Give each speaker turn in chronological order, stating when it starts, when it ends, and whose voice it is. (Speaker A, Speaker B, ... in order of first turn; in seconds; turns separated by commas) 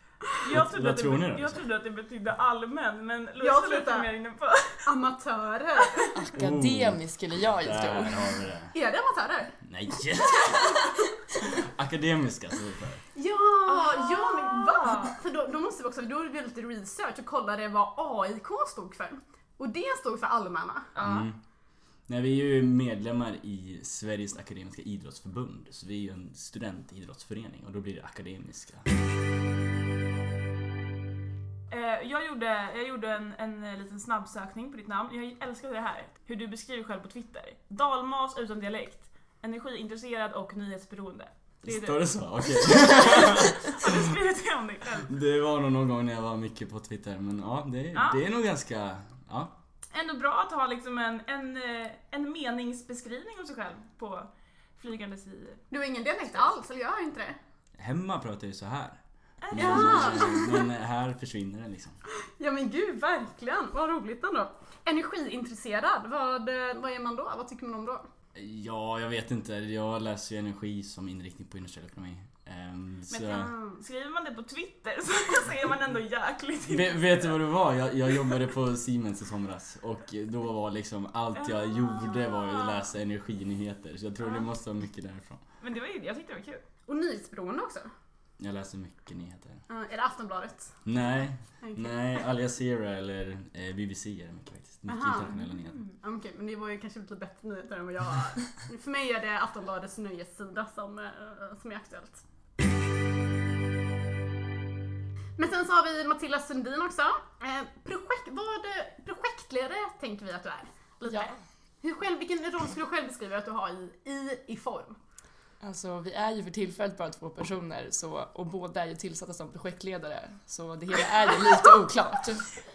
Speaker A: 0.3-4.9, Speaker B: 0.5-1.6, Speaker C: 3.4-4.1, Speaker C: 4.8-6.2, Speaker D: 6.2-8.4, Speaker B: 6.4-8.7, Speaker C: 8.7-9.6, Speaker B: 9.6-13.0, Speaker C: 10.4-10.9, Speaker C: 13.1-21.2, Speaker A: 13.7-15.1, Speaker A: 20.9-21.2, Speaker B: 21.0-21.4, Speaker B: 22.1-28.9, Speaker A: 31.7-45.1, Speaker B: 41.6-44.1, Speaker B: 45.1-49.5, Speaker A: 47.9-48.2, Speaker A: 49.9-55.6, Speaker C: 55.7-57.4, Speaker B: 57.8-62.0, Speaker A: 59.4-60.5, Speaker C: 59.5-60.6, Speaker C: 62.4-68.0, Speaker B: 68.3-73.5, Speaker A: 73.1-77.4, Speaker C: 73.5-73.8, Speaker B: 76.7-85.4, Speaker A: 81.3-82.8, Speaker A: 85.6-86.6, Speaker C: 86.9-87.9, Speaker B: 88.4-89.6, Speaker C: 89.7-90.8, Speaker B: 90.8-95.8, Speaker C: 91.6-92.0, Speaker C: 94.9-95.3, Speaker A: 95.3-95.9, Speaker C: 96.0-102.2, Speaker C: 105.4-115.0, Speaker D: 115.6-122.5